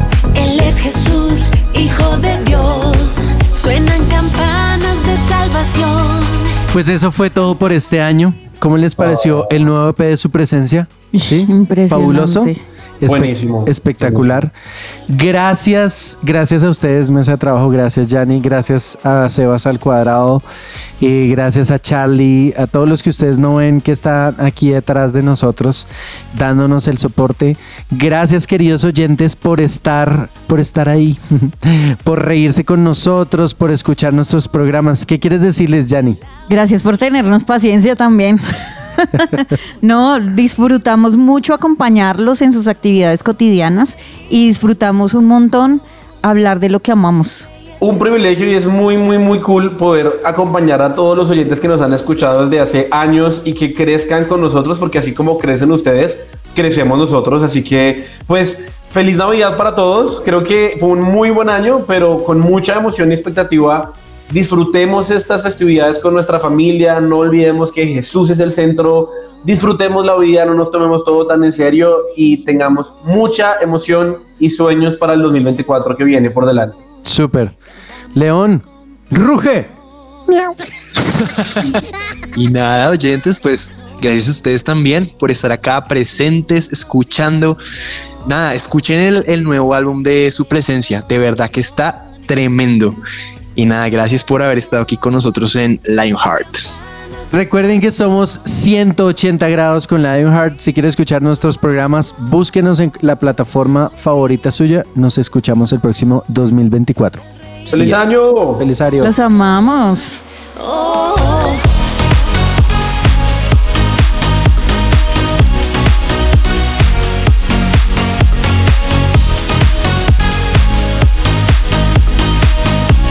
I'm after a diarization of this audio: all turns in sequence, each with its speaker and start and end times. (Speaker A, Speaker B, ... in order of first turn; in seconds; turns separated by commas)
Speaker A: 0.3-6.5, Speaker B: 6.7-14.5, Speaker C: 9.0-9.7, Speaker D: 11.1-12.6, Speaker C: 13.1-14.4, Speaker B: 15.1-20.4, Speaker B: 21.0-36.2, Speaker D: 36.5-38.4, Speaker D: 39.0-47.5, Speaker C: 47.8-76.8, Speaker B: 77.0-77.5, Speaker B: 78.1-79.8, Speaker B: 81.0-81.8, Speaker E: 82.3-87.6, Speaker E: 88.2-93.0, Speaker E: 93.5-96.6, Speaker B: 97.3-108.0, Speaker C: 107.7-108.6, Speaker B: 108.6-109.1, Speaker D: 109.0-110.2, Speaker A: 110.5-111.6